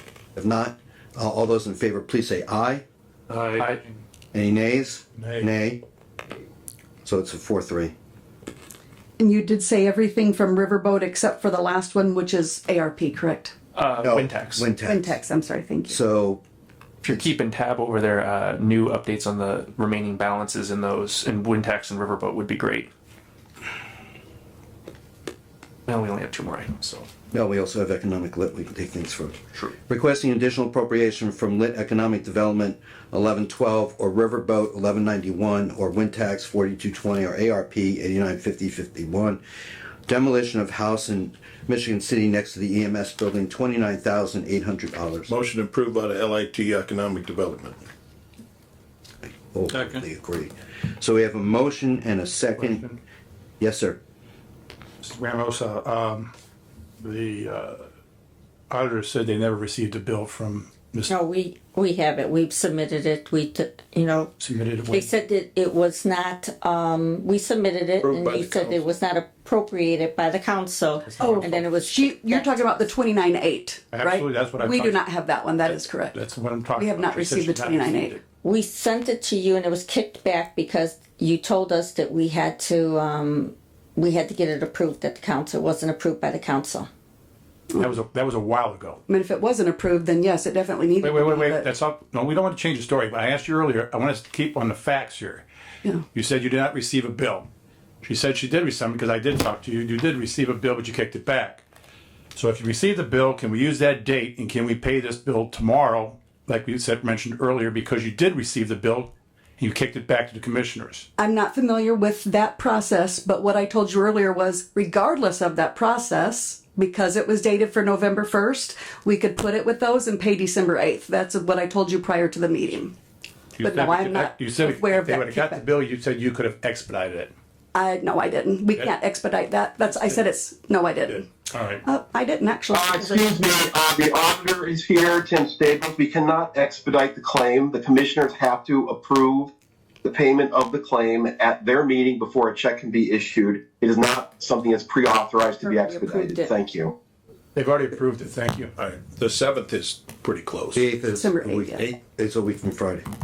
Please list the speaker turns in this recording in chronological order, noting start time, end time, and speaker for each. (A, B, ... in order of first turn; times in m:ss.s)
0:00.4-0:02.8 A
0:03.3-0:04.0 B
0:04.3-0:05.8 A
0:05.2-0:05.5 B
0:07.0-0:07.9 A
0:09.2-0:13.5 C
0:13.7-0:14.7 D
0:14.0-0:15.2 A
0:14.8-0:16.0 C
0:15.8-0:16.4 A
0:17.0-0:22.9 D
0:25.9-0:27.1 D
0:27.3-0:39.4 A
0:40.1-0:45.3 A
0:45.3-0:47.8 E
0:49.5-0:52.8 A
0:49.7-0:50.0 B
0:52.6-0:53.0 B
0:53.6-0:54.0 A
0:55.0-0:56.3 B
0:57.0-0:57.9 B
0:58.7-1:01.1 B
1:01.1-1:12.9 F
1:04.4-1:05.1 B
1:08.0-1:08.9 E
1:11.1-1:11.7 B
1:11.2-1:16.2 C
1:13.9-1:15.0 B
1:15.6-1:18.2 B
1:16.8-1:18.2 C
1:18.4-1:26.9 F
1:27.8-1:29.0 B
1:29.1-1:31.7 C
1:31.0-1:35.4 B
1:36.1-1:37.5 B
1:38.0-1:41.6 B
1:42.3-1:51.1 B
1:51.2-2:02.9 C
2:03.6-2:07.3 B
2:03.6-2:05.6 C
2:07.8-2:11.3 C
2:09.8-2:10.2 B
2:11.0-2:11.8 B
2:11.8-2:13.5 C
2:12.7-2:19.5 G
2:20.0-2:26.9 G
2:25.6-2:26.5 C
2:27.5-2:28.9 B
2:28.8-2:30.8 E
2:30.7-2:33.1 A
2:31.1-2:31.8 C